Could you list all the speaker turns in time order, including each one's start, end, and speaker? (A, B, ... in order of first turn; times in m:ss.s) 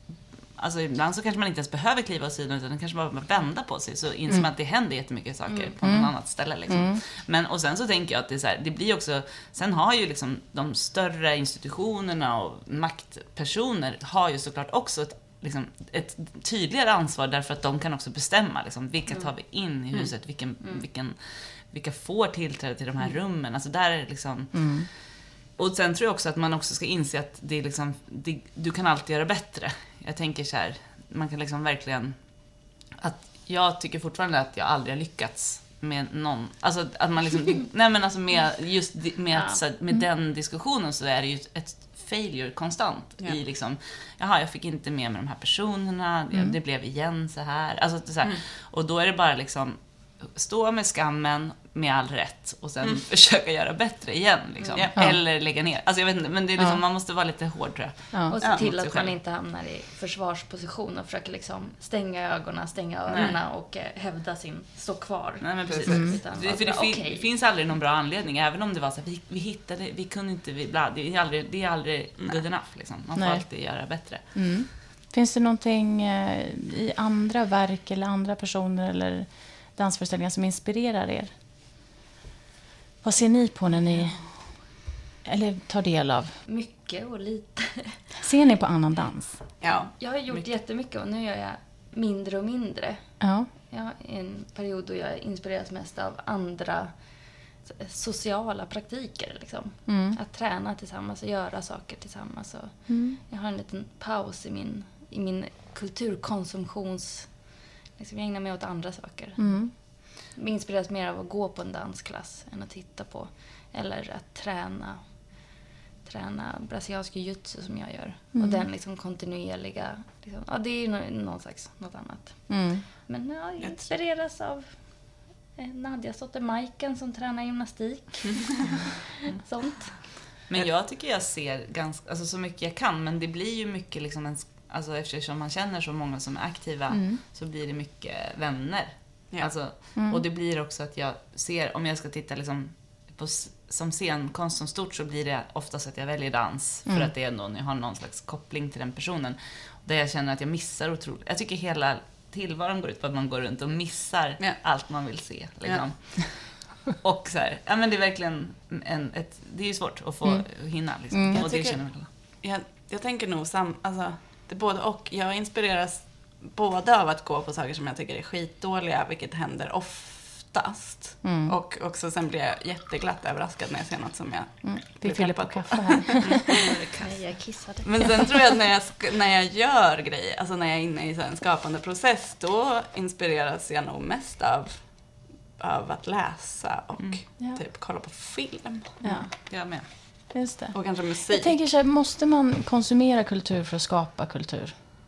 0:00.6-0:59.1 A
0:05.8-0:06.1 B
0:06.7-0:07.0 B
0:24.5-0:24.9 B
0:39.3-0:39.6 C
0:54.7-0:55.0 D
0:58.3-1:07.3 C
1:03.1-1:03.4 A
1:05.4-1:14.3 A
1:05.7-1:06.1 D
1:05.9-1:06.2 B
1:13.2-1:13.4 B
1:14.2-1:21.3 B
1:23.0-1:26.4 B
1:26.4-1:28.0 C
1:28.2-1:29.5 B
1:29.6-1:29.9 D
1:29.7-1:36.9 C
1:33.2-1:33.5 B
1:37.6-1:55.0 C
1:39.9-1:40.2 B
1:42.9-1:43.2 B
1:49.4-1:49.7 B
1:56.0-2:04.9 C
1:58.3-1:58.6 B
2:02.5-2:02.8 B
2:03.6-2:03.9 D
2:05.5-2:10.0 C
2:09.9-2:42.1 A
2:16.9-2:17.2 B
2:20.0-2:20.2 B
2:40.2-2:41.5 B
2:41.3-2:56.5 D
2:51.2-2:51.6 B
2:54.6-2:56.6 B
2:56.2-2:56.7 A
2:56.9-2:58.5 C
2:57.8-3:09.2 D
3:09.0-3:14.7 B
3:09.5-3:09.9 A
3:10.7-3:11.5 D